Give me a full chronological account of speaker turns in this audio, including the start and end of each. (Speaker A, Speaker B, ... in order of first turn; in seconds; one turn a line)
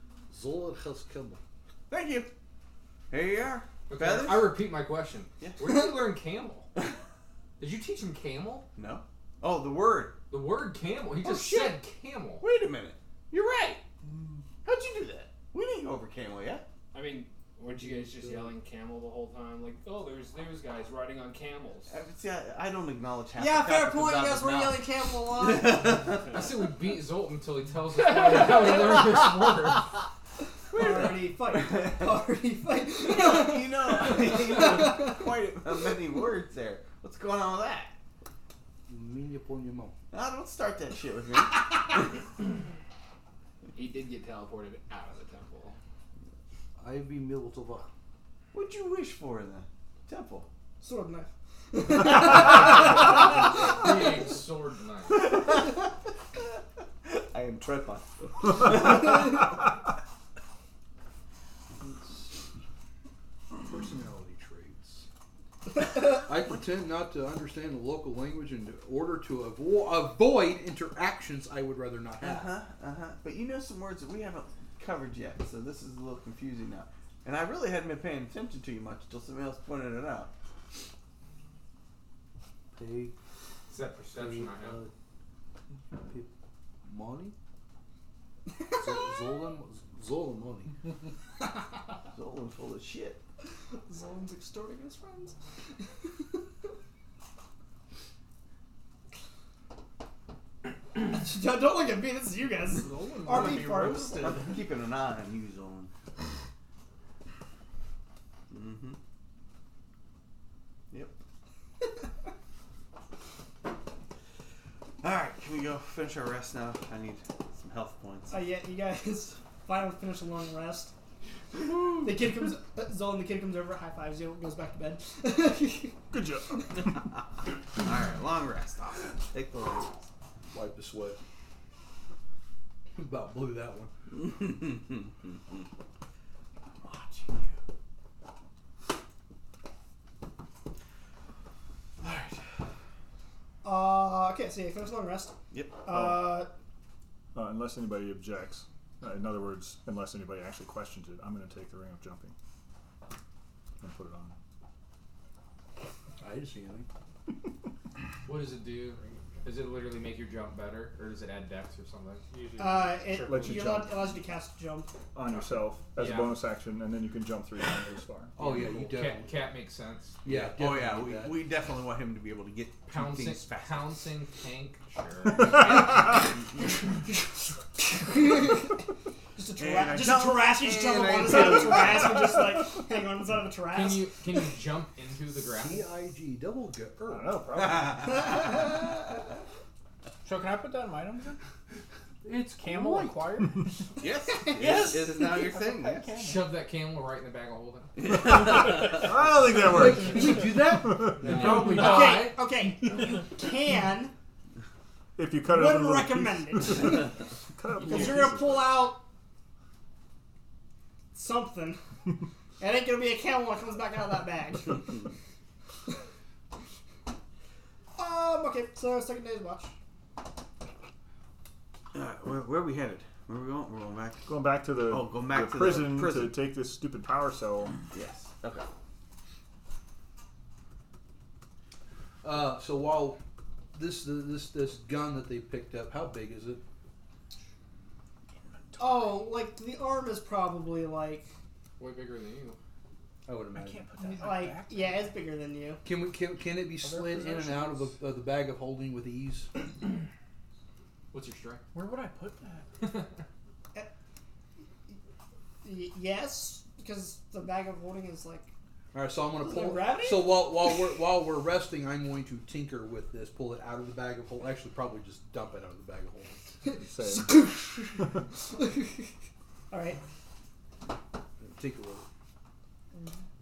Speaker A: 0.3-1.4
Speaker B: 1.9-2.3
Speaker B: 3.1-4.7
Speaker C: 3.9-6.7
Speaker B: 5.4-5.8
Speaker C: 7.6-8.7
Speaker B: 8.8-10.2
Speaker C: 10.3-12.4
Speaker B: 11.2-11.8
Speaker B: 12.4-13.8
Speaker B: 14.6-16.7
Speaker D: 16.9-21.9
Speaker B: 21.9-26.4
Speaker E: 23.4-26.0
Speaker D: 26.0-26.5
Speaker C: 26.3-29.9
Speaker D: 28.3-28.9
Speaker E: 30.7-35.3
Speaker B: 30.7-32.0
Speaker B: 33.0-38.0
Speaker A: 38.9-40.0
Speaker B: 40.1-42.1
Speaker D: 43.7-45.8
Speaker A: 46.8-47.9
Speaker B: 48.5-50.5
Speaker E: 50.8-53.3
Speaker C: 53.5-55.3
Speaker B: 55.1-55.8
Speaker B: 57.0-59.6
Speaker A: 61.8-62.4
Speaker A: 63.6-65.1
Speaker A: 65.8-72.6
Speaker B: 72.2-80.3
Speaker A: 82.7-83.2
Speaker C: 83.7-84.8
Speaker A: 84.1-84.9
Speaker A: 86.0-86.3
Speaker A: 86.9-87.3
Speaker A: 88.7-90.7
Speaker B: 92.1-93.2
Speaker E: 93.9-95.4
Speaker E: 101.0-104.3
Speaker F: 102.7-104.6
Speaker B: 104.0-105.9
Speaker B: 108.5-109.0
Speaker B: 115.0-118.4
Speaker E: 118.3-120.9
Speaker E: 121.9-126.0
Speaker G: 126.1-126.8
Speaker B: 127.8-130.1
Speaker A: 130.5-131.2
Speaker A: 132.9-133.9
Speaker B: 134.3-135.0
Speaker B: 136.8-137.5
Speaker B: 142.0-142.4
Speaker E: 143.6-146.5
Speaker B: 145.5-145.8
Speaker G: 145.9-146.4
Speaker G: 147.3-152.3
Speaker G: 153.8-154.4
Speaker A: 156.2-156.9
Speaker C: 158.2-162.2
Speaker D: 162.3-163.7
Speaker E: 162.6-164.9
Speaker G: 163.2-164.0
Speaker G: 165.1-168.3
Speaker C: 166.0-166.4
Speaker A: 168.4-169.4
Speaker C: 168.4-170.2
Speaker A: 170.2-171.4
Speaker B: 170.3-173.6
Speaker C: 172.9-176.2
Speaker G: 175.4-175.9
Speaker E: 177.7-178.8
Speaker E: 179.4-184.1
Speaker B: 179.6-182.3
Speaker C: 183.7-185.9
Speaker A: 185.4-187.5
Speaker G: 187.1-188.4
Speaker F: 190.2-191.4
Speaker A: 192.2-193.5
Speaker F: 192.5-193.7
Speaker B: 194.0-196.2
Speaker E: 194.3-194.6
Speaker F: 194.5-196.5
Speaker C: 196.2-197.9
Speaker B: 198.0-199.1
Speaker G: 198.2-201.4
Speaker A: 199.6-202.0
Speaker C: 201.2-202.4
Speaker F: 201.5-202.2
Speaker E: 201.7-204.1
Speaker G: 205.2-208.7
Speaker E: 205.5-207.2
Speaker E: 207.8-209.0
Speaker E: 211.1-211.8
Speaker E: 212.6-215.1
Speaker E: 218.0-219.7
Speaker B: 221.9-226.4
Speaker G: 224.3-227.8
Speaker B: 227.9-228.7
Speaker A: 232.2-233.2
Speaker A: 233.7-236.6
Speaker E: 238.8-241.3
Speaker C: 241.8-242.6
Speaker A: 243.3-244.1
Speaker F: 243.5-245.2
Speaker E: 244.2-245.8
Speaker A: 245.8-249.5
Speaker F: 246.8-247.9
Speaker C: 251.1-251.6
Speaker F: 251.7-253.0
Speaker E: 255.6-258.5
Speaker A: 258.9-266.4
Speaker E: 259.4-260.5
Speaker E: 266.6-269.1
Speaker G: 266.8-268.1
Speaker E: 269.7-270.0
Speaker A: 271.4-272.1